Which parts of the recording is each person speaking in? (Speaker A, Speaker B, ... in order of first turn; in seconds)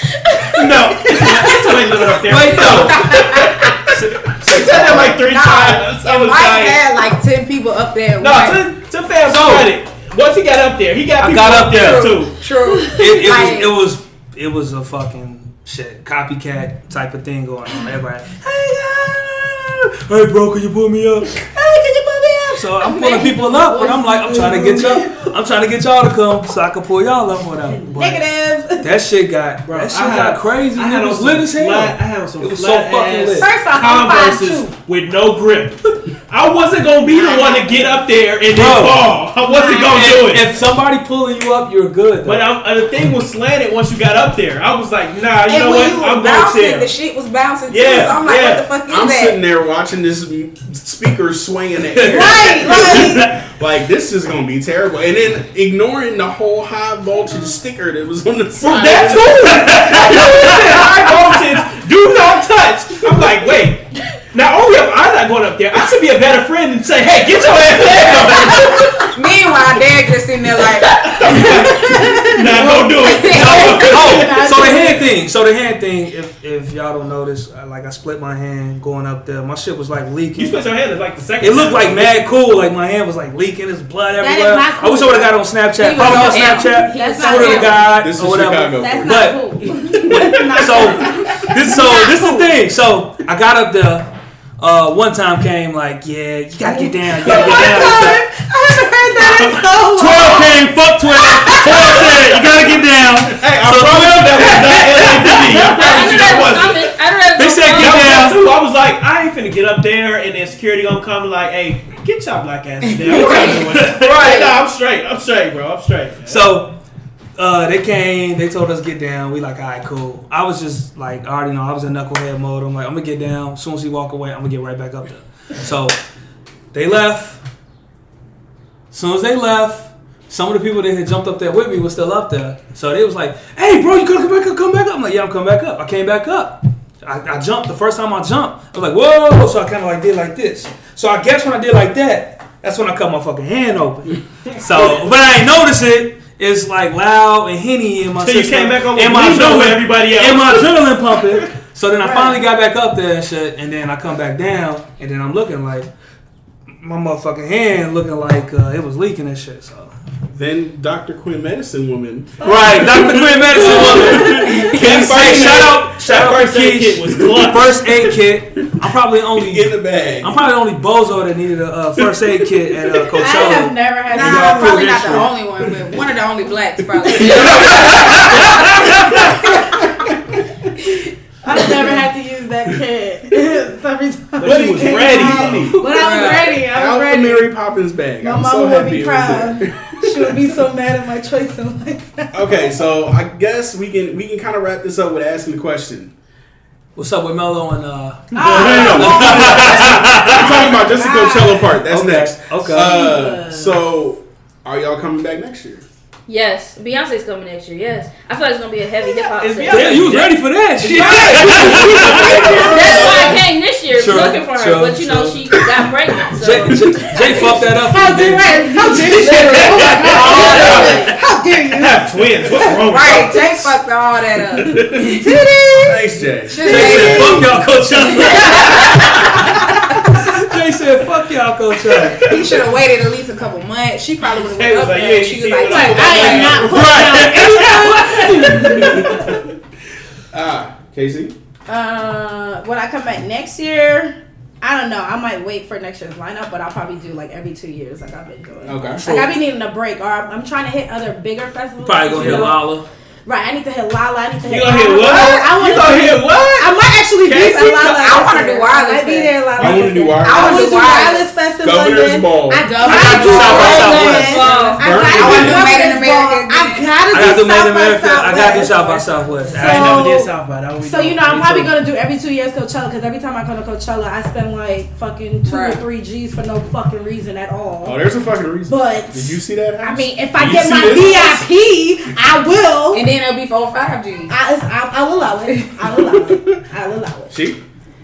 Speaker A: 0.5-3.7, 4.3-6.8, 8.2-12.4, 29.6-40.5, 42.2-46.9, 47.7-48.7, 52.0-52.8, 58.6-68.7, 71.0-74.9, 80.3-82.6, 101.6-107.0, 107.7-116.6, 148.2-151.4, 164.8-167.8, 184.4-185.9, 209.0-213.5, 220.3-220.8, 221.7-223.4, 231.9-232.2, 234.4-238.5, 254.4-258.3, 269.5-271.8
Speaker B: 2.2-3.2, 3.8-5.1, 9.3-9.7, 11.2-12.2, 12.9-21.5, 22.5-33.6, 38.5-42.5, 52.8-53.4, 59.3-61.7, 73.2-80.7, 81.4-94.1, 94.6-98.3, 99.3-106.5, 107.3-108.4, 113.3-114.1, 116.3-116.8, 117.4-126.0, 126.7-127.4, 128.9-155.9, 156.8-159.9, 162.4-175.4, 177.3-179.2, 197.0-200.5, 201.8-203.2, 209.7-212.7, 213.9-215.7, 216.3-220.8, 226.6-232.3, 236.6-239.3, 249.0-249.4, 251.8-252.9, 262.8-264.5, 267.1-270.1
Speaker C: 2.5-3.8, 4.6-8.7, 11.6-13.8, 45.5-49.4, 69.0-71.9, 73.0-74.0, 85.8-87.8, 112.9-114.6, 174.1-179.9, 185.8-186.6, 212.6-213.0, 220.3-220.8, 222.8-225.3, 226.5-229.3, 232.2-236.7, 254.9-255.4, 258.0-261.3, 262.7-264.0, 265.1-267.3, 275.4-275.8, 282.9-284.3
Speaker D: 4.4-5.2, 48.9-59.7, 87.9-90.2, 160.3-165.8, 168.0-168.8, 169.4-170.5, 177.0-177.9, 184.4-190.6, 192.3-196.1, 198.4-205.9, 224.7-225.1, 225.8-227.7, 238.6-239.5, 240.3-241.3, 248.7-249.1, 252.2-252.5, 259.6-260.9, 261.6-262.7, 264.8-265.8, 277.8-281.5, 286.0-286.6, 287.3-287.6
Speaker E: 21.6-25.3, 27.7-28.9, 33.4-34.7, 37.1-38.0, 39.4-40.0, 52.1-53.3, 71.8-75.1, 84.2-85.4, 85.9-88.0, 88.7-92.5, 96.6-102.1, 152.0-152.4, 162.4-162.9, 163.5-164.8, 173.2-174.9, 181.4-187.5, 188.2-192.4, 198.4-201.7, 202.7-203.8, 217.2-223.7, 225.0-226.3, 235.6-239.3, 241.7-252.7, 253.3-278.0, 278.7-283.1, 284.3-287.4
Speaker F: 105.6-108.2, 206.3-210.1, 212.5-217.6, 219.0-221.1, 262.6-264.8